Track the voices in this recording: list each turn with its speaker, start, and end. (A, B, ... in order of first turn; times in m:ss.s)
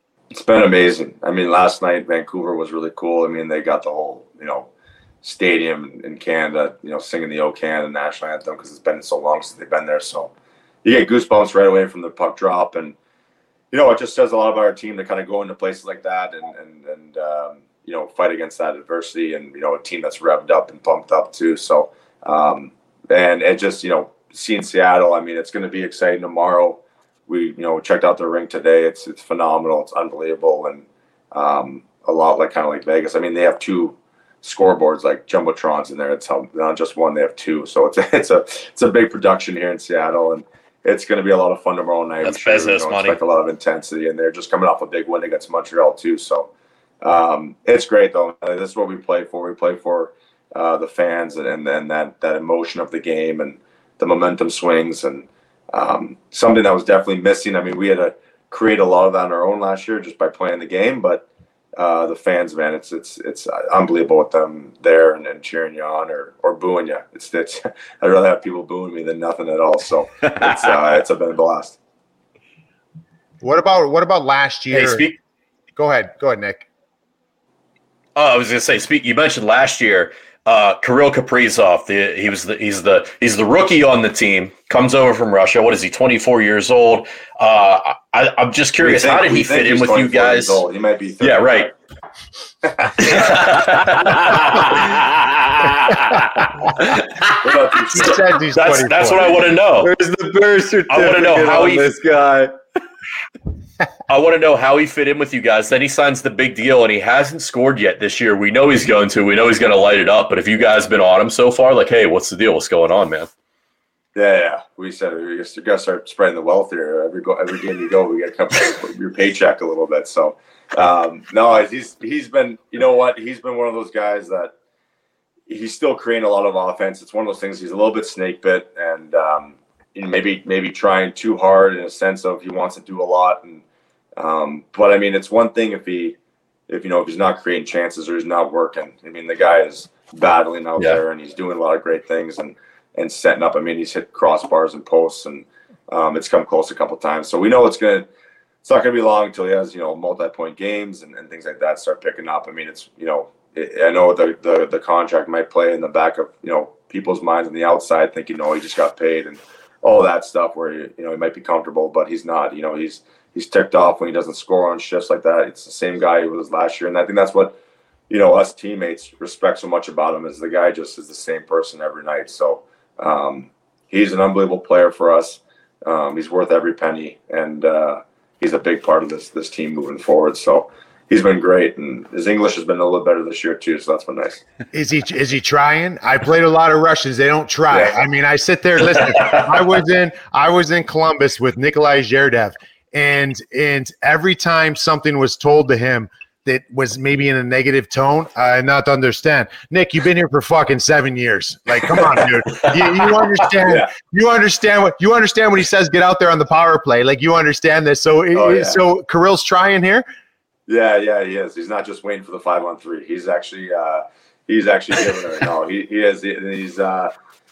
0:00.3-0:04.7 A
0:05.2-0:10.3 A
0:10.8-0:13.0 A
0:13.7-0:46.5 A
0:42.2-0:43.2 B
0:47.0-1:11.8 A
1:13.4-1:15.1 C
1:14.7-1:15.2 B
1:15.8-1:16.6 C
1:18.2-1:30.6 B
1:28.8-1:31.5 A
1:31.2-1:31.7 B
1:32.6-1:33.7 A
1:33.0-1:36.2 B
1:37.4-1:38.1 A
1:37.8-1:39.9 B
1:37.8-1:39.4 C
1:39.8-1:42.5 D
1:40.9-1:41.9 B
1:44.1-1:53.3 B
1:54.1-2:04.5 A
2:05.5-2:13.6 A
2:14.2-2:16.2 A
2:16.7-2:28.1 A
2:28.6-2:47.6 A
2:48.1-3:04.4 A
3:04.7-3:30.0 C
3:07.7-3:08.0 A
3:22.5-3:23.2 B
3:28.3-3:28.8 A
3:30.7-3:37.1 A